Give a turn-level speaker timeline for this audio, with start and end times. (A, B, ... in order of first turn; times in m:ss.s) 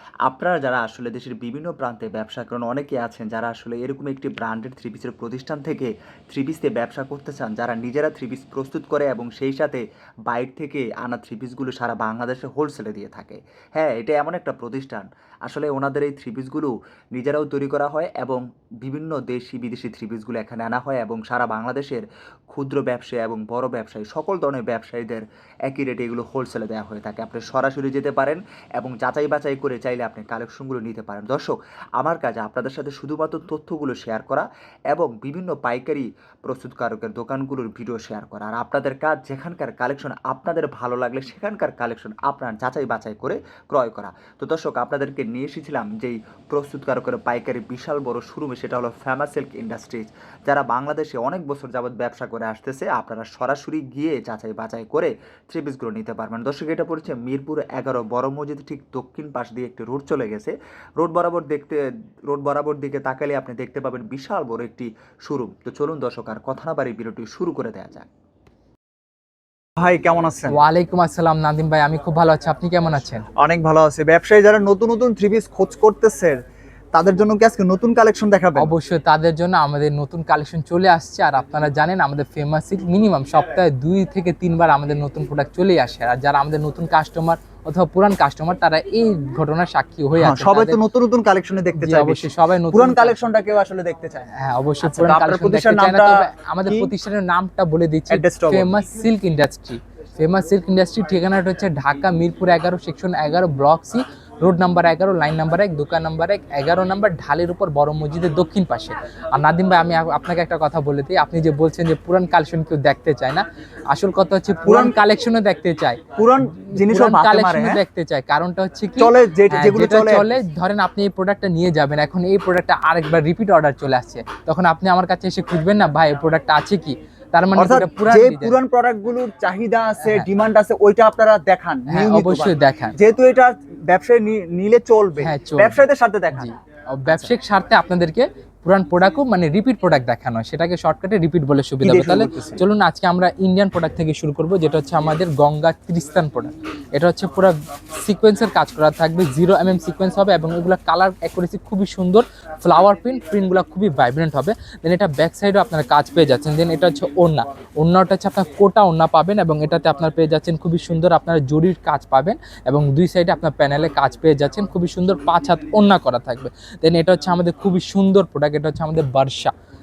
0:00.2-1:08.1 A
1:09.8-1:10.6 B
1:10.5-1:13.3 C
1:13.3-1:16.4 B
1:16.9-1:18.7 B
1:18.6-1:30.8 C
1:30.2-1:34.3 B
1:31.7-1:33.2 C
1:34.3-2:08.6 C
1:34.8-1:36.9 B
1:38.1-1:38.7 B
1:54.6-1:55.0 B
1:56.2-1:57.8 B
1:59.0-2:00.3 B
2:07.5-2:16.5 B
2:10.0-2:10.3 C
2:11.9-2:12.9 C
2:15.2-2:15.8 C
2:16.4-2:49.5 C
2:21.8-2:22.6 B